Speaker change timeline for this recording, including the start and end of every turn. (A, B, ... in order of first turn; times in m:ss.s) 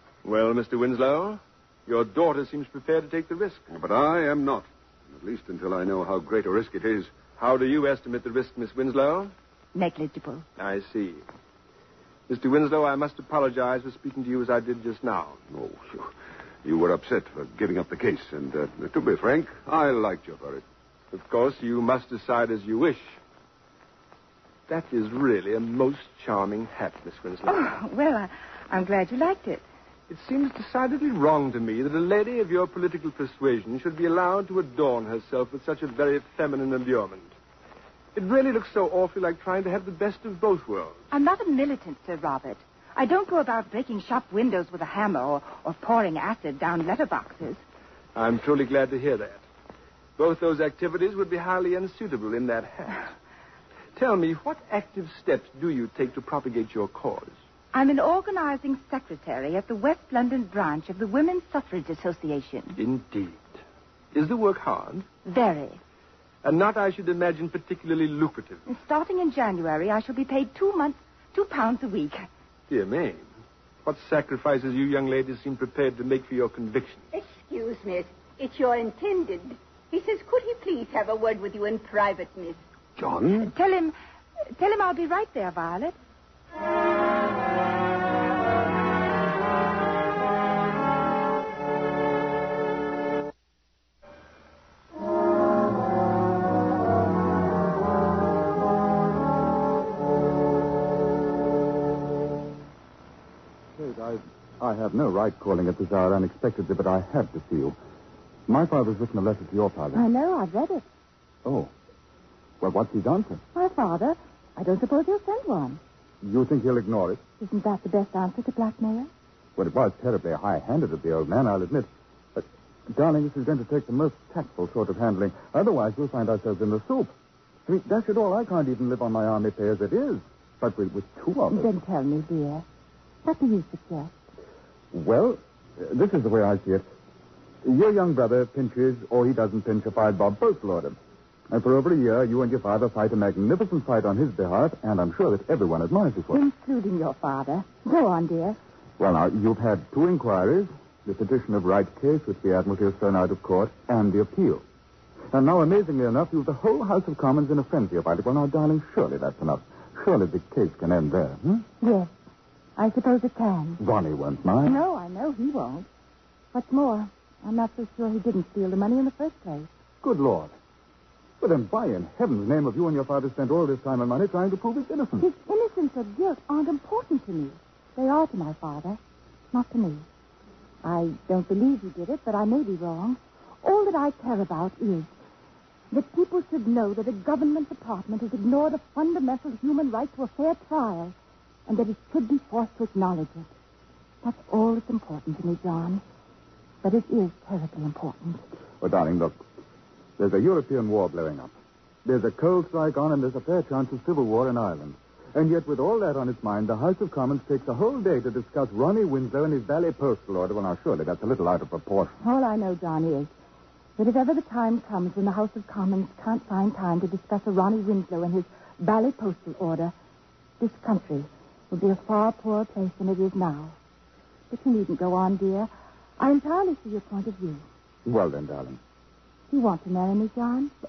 0:00.2-0:03.6 A
0:03.7-0:07.1 B
0:07.4-0:09.3 A
0:09.7-0:10.4 C
0:10.6-0:11.2 A
0:12.3-0:15.4 A
0:15.5-0:16.1 B
0:16.6-0:20.6 B
0:21.1-0:23.2 A
0:24.7-0:27.7 A
0:27.4-0:29.6 C
0:30.1-0:37.3 A
0:38.1-0:41.0 A
0:41.1-0:47.6 C
0:48.1-0:49.4 A
0:50.2-0:53.1 A
0:54.0-0:57.3 A
0:57.7-1:02.8 C
1:02.8-1:03.5 A
1:04.1-1:05.0 A
1:05.2-1:05.8 C
1:06.4-1:08.6 A
1:08.6-1:12.2 C
1:12.7-1:13.3 A
1:13.8-1:17.0 A
1:17.1-1:22.6 D
1:23.0-1:23.5 B
1:23.4-1:23.9 C
1:24.6-1:25.9 C
1:43.8-1:47.8 E
1:48.5-1:50.0 E
1:49.9-1:50.8 C
1:52.6-1:53.4 E
1:53.5-1:55.8 C
1:56.2-1:57.2 E
1:57.4-1:59.1 C
1:59.6-2:07.1 E
2:07.6-2:11.7 E
2:11.5-2:12.6 C
2:13.2-2:14.1 C
2:14.9-2:16.8 E
2:17.6-2:20.9 E
2:21.5-2:26.4 E
2:26.3-2:28.6 C
2:29.0-2:34.6 E
2:35.3-2:41.6 E
2:41.8-2:42.1 C
2:42.8-2:43.8 C
2:43.8-2:44.8 E
2:44.6-2:45.9 C
2:46.5-2:49.7 C
2:50.0-2:50.5 E
2:51.4-2:55.2 E
2:55.2-2:59.0 C
2:59.5-3:00.0 C
3:00.8-3:05.1 C
3:05.9-3:11.1 C
3:11.7-3:13.5 C
3:14.2-3:16.0 C
3:16.8-3:18.4 C
3:18.8-3:19.3 E
3:20.2-3:21.5 E
3:22.0-3:32.1 E
3:32.2-3:33.3 C
3:34.0-3:39.9 C
3:40.6-3:43.8 C
3:44.5-3:47.6 C
3:48.0-3:48.8 E
3:49.5-3:50.7 C